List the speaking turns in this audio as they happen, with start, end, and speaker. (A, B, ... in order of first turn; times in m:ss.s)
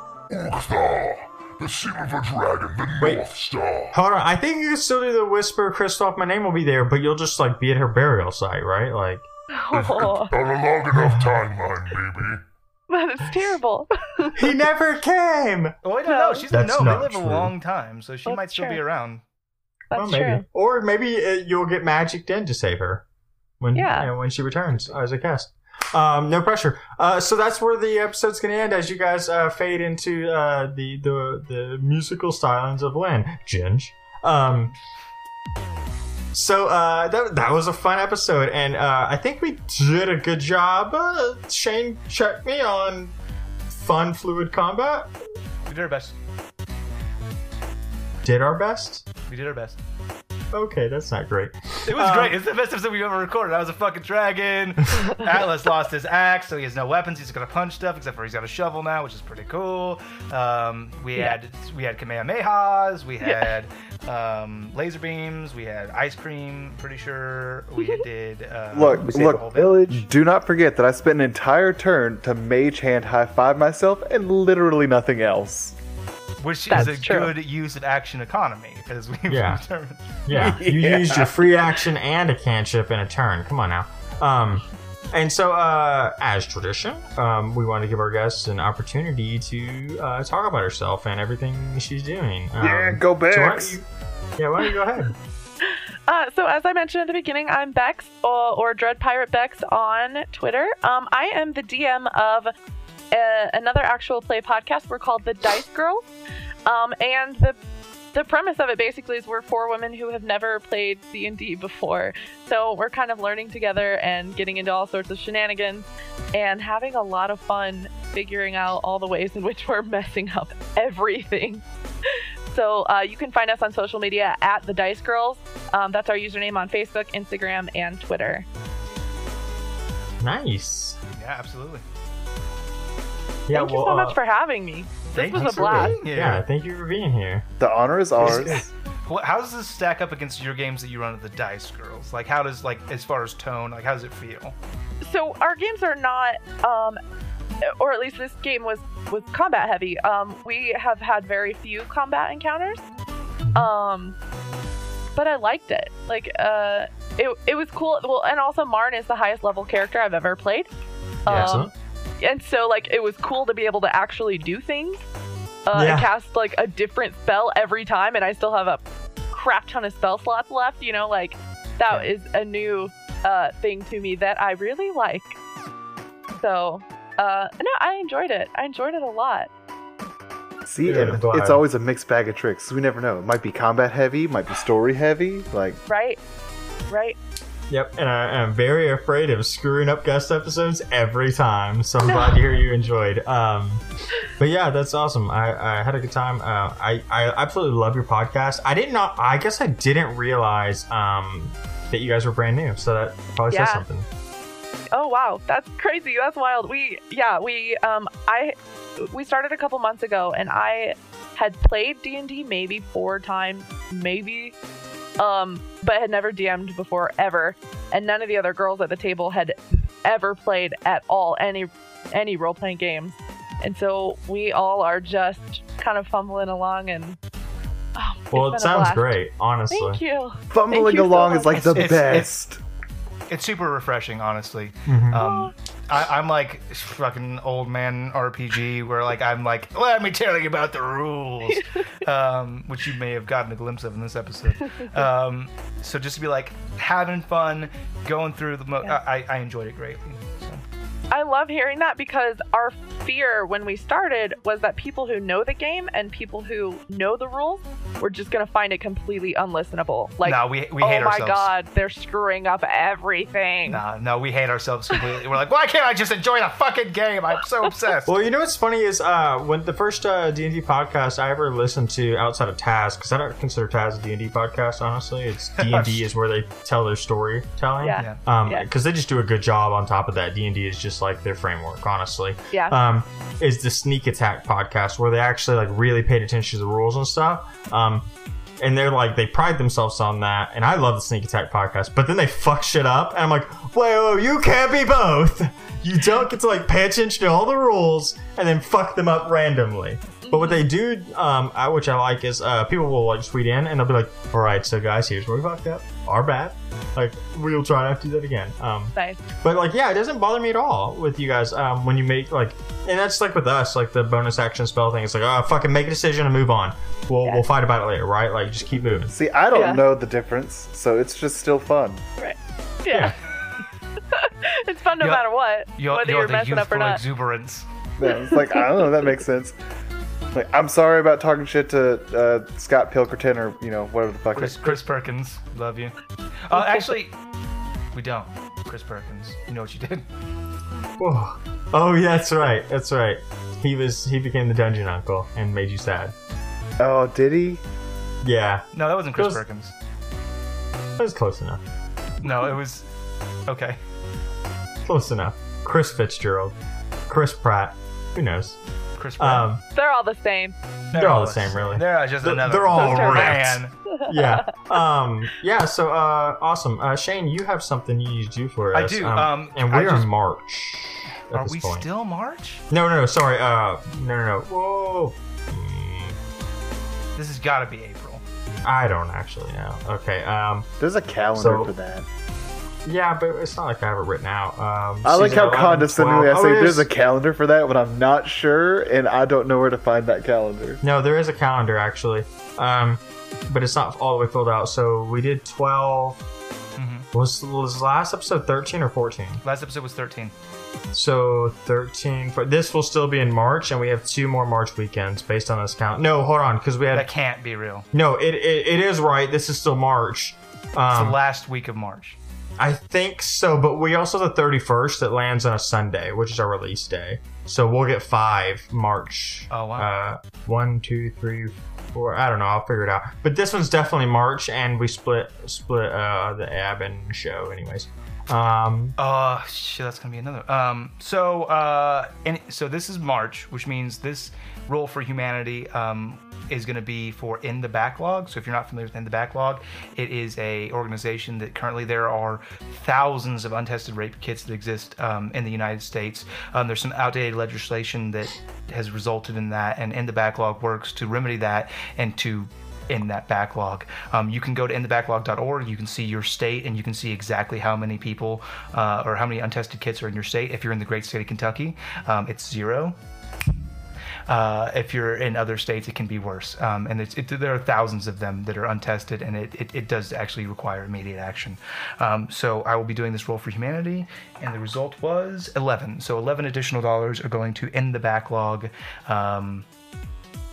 0:00.3-0:04.0 A
0:03.9-0:09.3 B
0:09.5-0:10.3 C
0:09.7-0:12.4 A
0:10.9-0:11.4 B
0:12.9-0:14.5 C
0:14.4-0:15.8 B
0:15.8-0:19.2 D
0:16.0-0:16.5 C
0:16.5-0:17.5 B
0:18.3-0:18.8 C
0:19.9-0:20.4 C
0:20.0-0:23.0 B
0:23.6-0:34.7 B
0:23.8-0:24.1 C
0:36.3-0:43.2 B
0:43.7-0:45.1 B
0:45.7-0:46.2 D
0:48.2-0:49.1 B
0:49.3-0:49.8 D
0:50.5-0:52.4 B
0:51.9-1:10.0 D
1:03.2-1:03.5 C
1:08.7-1:15.8 E
1:16.4-1:20.4 D
1:16.7-1:17.3 C
1:19.3-1:19.6 B
1:20.3-1:33.8 B
1:20.3-1:21.5 E
1:32.6-1:33.8 E
1:34.4-1:35.2 B
1:35.7-1:42.5 C
1:43.1-1:46.0 C
1:46.6-1:47.6 C
1:48.1-2:08.5 C
2:10.2-2:11.0 B
2:11.2-2:11.8 D
2:13.5-2:14.2 B
2:13.5-2:16.0 C
2:15.1-2:16.4 D
2:15.3-2:17.5 B
2:17.6-2:18.7 E
2:18.2-2:18.6 B
2:18.2-2:24.6 D
2:25.0-2:27.0 C
2:27.6-2:32.9 C
2:33.4-2:33.7 B
2:33.5-2:34.2 C
2:35.2-2:40.7 C
2:41.2-2:41.6 D
2:41.3-2:41.7 B
2:41.3-2:45.1 C
2:45.7-2:55.4 C
2:45.8-2:46.1 B
2:56.4-2:59.5 C
3:00.6-3:05.8 E
3:00.8-3:01.6 B
3:05.9-3:06.2 C
3:06.9-3:07.2 C
3:07.7-3:13.8 B
3:12.0-3:12.4 C
3:14.4-3:24.1 B
3:23.5-3:23.8 C
3:24.9-3:34.6 C
3:35.2-3:47.2 C
3:48.0-3:52.0 C
3:48.3-3:50.0 B
3:50.5-3:52.6 E
3:51.5-3:52.3 D
3:53.3-4:10.6 D
3:54.9-3:55.2 B
3:55.1-3:55.5 C
4:01.5-4:01.9 C
4:11.1-4:23.8 C
4:20.2-4:21.5 D
4:23.7-4:28.3 D
4:28.1-4:48.1 B
4:35.6-4:36.1 D
4:37.8-4:38.7 C
4:38.0-4:38.2 D
4:42.5-4:42.8 C
4:48.6-5:19.1 B
5:00.2-5:00.7 C
5:08.9-5:09.2 C
5:18.9-5:22.0 E
5:19.5-5:19.9 C
5:22.2-5:23.2 C
5:24.1-5:27.0 C
5:25.0-5:27.7 D
5:28.0-5:29.6 E
5:28.3-5:28.6 C
5:30.3-5:34.8 E
5:34.4-5:37.2 D
5:37.9-5:40.1 D
5:41.0-5:46.1 B
5:46.8-5:47.6 E
5:48.2-5:49.4 B
5:48.7-5:49.7 D
5:51.0-5:51.6 B
5:52.2-5:52.9 D
5:53.5-5:53.8 D
5:54.8-5:56.6 B
5:57.1-5:58.6 B
5:59.0-5:59.5 D
5:59.2-5:59.6 B
5:59.7-6:00.6 C
6:00.9-6:03.7 D
6:00.9-6:11.9 B
6:02.7-6:04.5 C
6:08.7-6:10.1 D
6:11.3-6:12.6 D
6:12.7-6:16.2 B
6:17.2-6:18.2 D
6:18.6-6:20.7 B
6:20.8-6:22.1 E
6:21.3-6:21.7 B
6:22.8-6:26.9 B
6:25.0-6:30.8 E
6:30.8-6:36.2 B
6:36.8-6:37.1 D
6:37.1-6:39.4 B
6:39.4-6:40.4 D
6:40.9-6:47.1 B
6:46.9-6:47.9 D
6:47.9-6:51.2 B
6:50.9-6:52.2 D
6:52.6-7:09.0 B
6:59.5-6:59.9 D
7:09.0-7:43.0 D
7:44.3-7:59.7 D